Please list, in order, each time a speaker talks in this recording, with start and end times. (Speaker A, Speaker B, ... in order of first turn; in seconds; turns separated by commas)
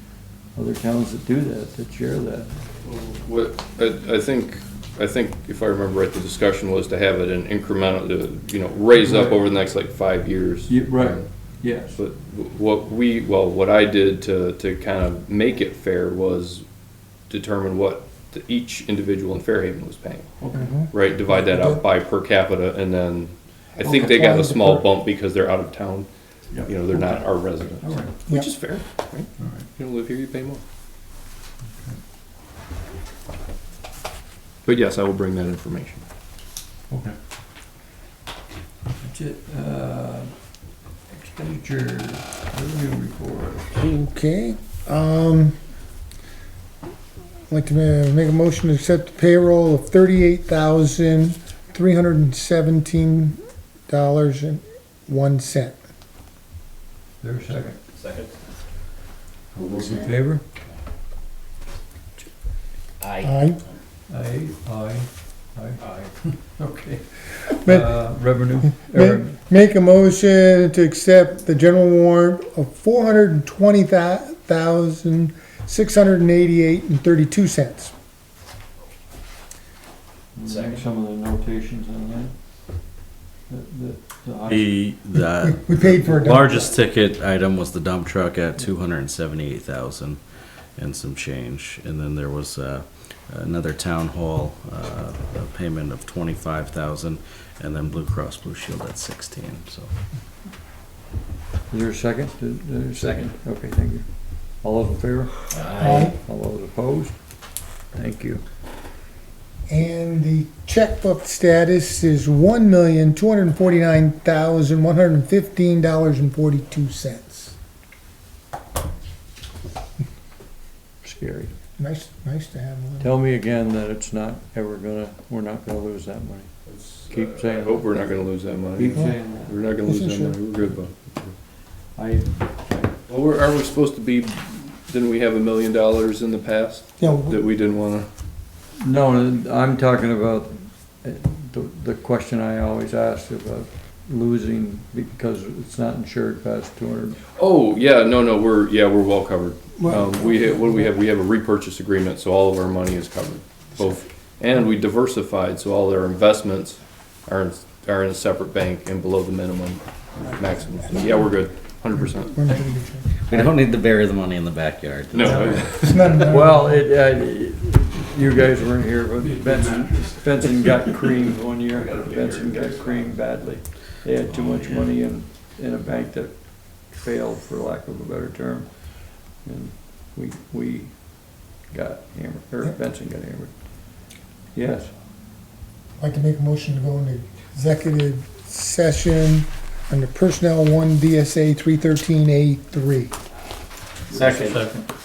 Speaker A: 0.5-2.5, Speaker B: 2.9-11.2, Speaker A: 9.0-9.4, Speaker A: 10.7-12.0, Speaker B: 11.9-16.6, Speaker B: 17.3-26.1, Speaker A: 20.4-20.7, Speaker C: 20.5-21.8, Speaker C: 23.8-24.9, Speaker A: 26.5-27.2, Speaker B: 26.6-30.6, Speaker A: 27.8-28.1, Speaker A: 29.4-29.6, Speaker B: 34.7-36.0, Speaker A: 36.9-37.1, Speaker A: 39.0-40.3, Speaker A: 41.1-43.8, Speaker C: 43.8-45.6, Speaker C: 47.5-55.8, Speaker A: 57.2-57.8, Speaker A: 59.7-60.4, Speaker C: 63.2-63.6, Speaker A: 64.1-65.8, Speaker A: 66.5-69.3, Speaker C: 67.6-68.0, Speaker C: 68.8-77.9, Speaker A: 80.3-82.3, Speaker A: 83.5-84.7, Speaker D: 84.5-90.2, Speaker C: 85.2-86.7, Speaker D: 90.7-99.9, Speaker A: 101.7-107.2, Speaker D: 105.6-105.9, Speaker C: 105.8-106.2, Speaker A: 107.9-108.4, Speaker C: 109.7-117.5, Speaker A: 121.0-121.5, Speaker C: 121.8-123.1, Speaker A: 123.0-126.5, Speaker B: 126.7-131.3, Speaker A: 127.1-128.0, Speaker A: 128.8-129.6, Speaker C: 129.8-130.4, Speaker A: 131.9-132.9, Speaker B: 133.1-138.1, Speaker C: 137.0-137.4, Speaker A: 138.8-147.2, Speaker B: 147.4-162.5, Speaker C: 149.8-150.9, Speaker C: 161.0-161.3, Speaker C: 161.9-163.1, Speaker D: 163.3-165.8, Speaker B: 165.1-166.2, Speaker C: 165.2-166.8, Speaker A: 166.3-178.9, Speaker B: 171.8-172.7, Speaker A: 179.4-180.9, Speaker A: 181.7-184.0, Speaker A: 184.5-184.9, Speaker C: 186.0-193.1, Speaker A: 194.1-194.7, Speaker D: 194.1-194.7